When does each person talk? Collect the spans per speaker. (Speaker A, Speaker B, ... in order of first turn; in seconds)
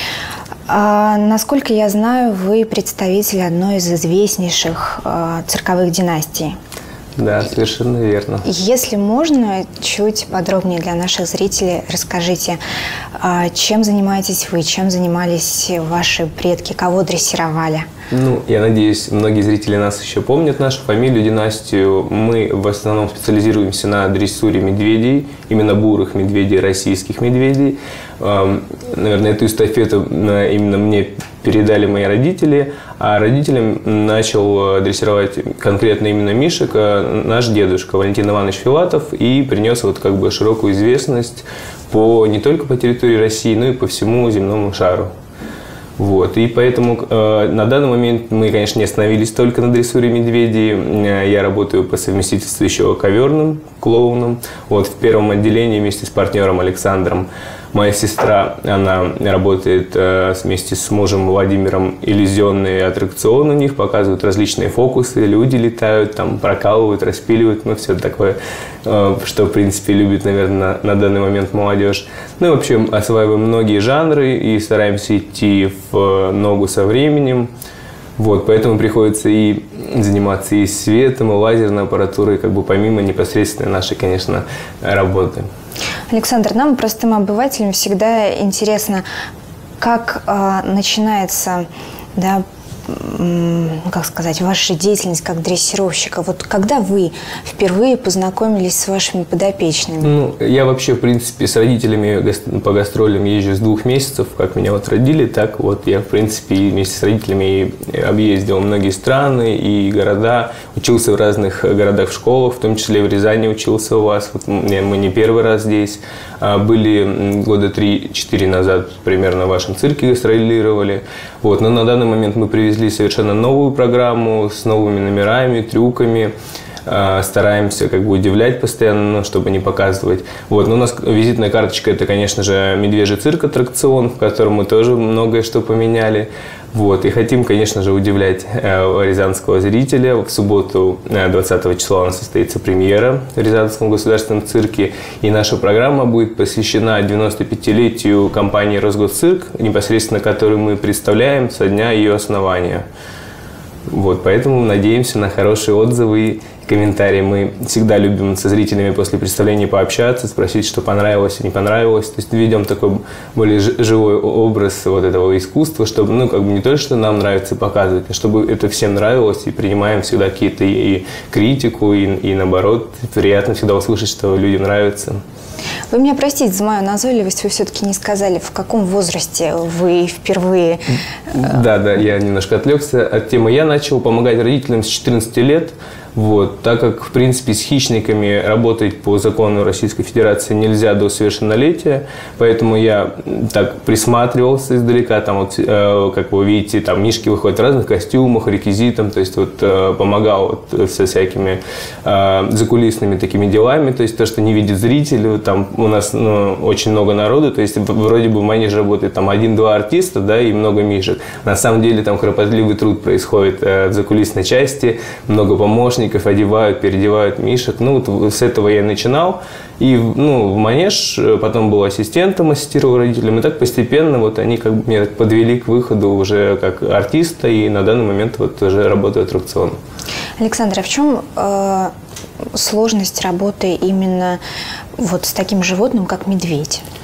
Speaker A: 0.7-6.5, 8.4-12.6, 13.2-17.9, 86.1-89.0, 89.8-100.1, 175.9-181.4, 230.4-231.9, 232.5-234.4, 235.0-236.8
Speaker B: 7.2-8.4, 18.1-45.1, 46.0-77.5, 78.2-85.5, 100.0-126.3, 126.8-152.9, 153.9-175.2, 181.3-229.8